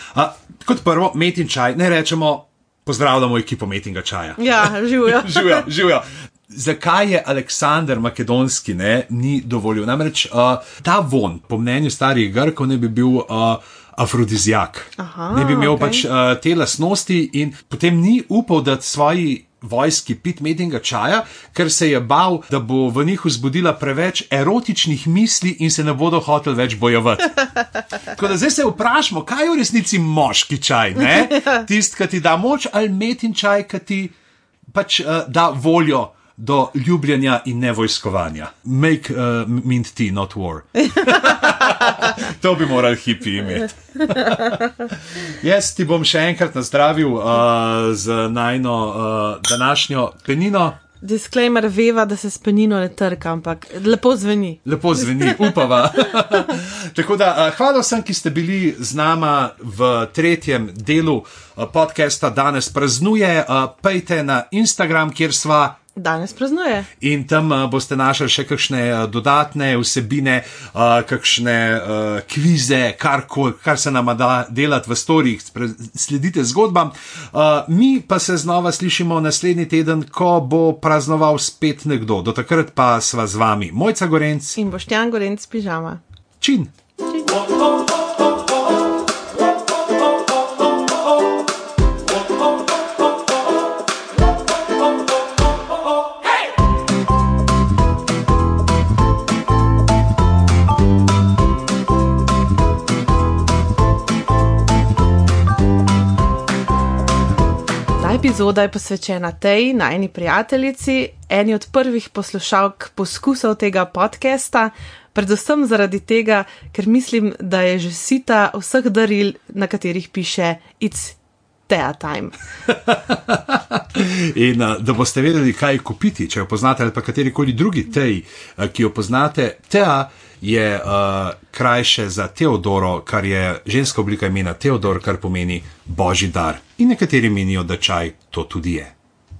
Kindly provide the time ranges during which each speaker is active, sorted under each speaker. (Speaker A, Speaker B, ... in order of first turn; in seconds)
Speaker A: 0.1-34.1, 34.7-50.8, 54.6-65.8, 67.0-84.6, 86.4-86.7, 122.7-138.9
Speaker B: 4.4-5.7, 15.0-16.1, 40.9-42.1, 44.0-44.9, 51.0-56.1, 66.0-66.9, 84.6-86.0, 108.0-122.3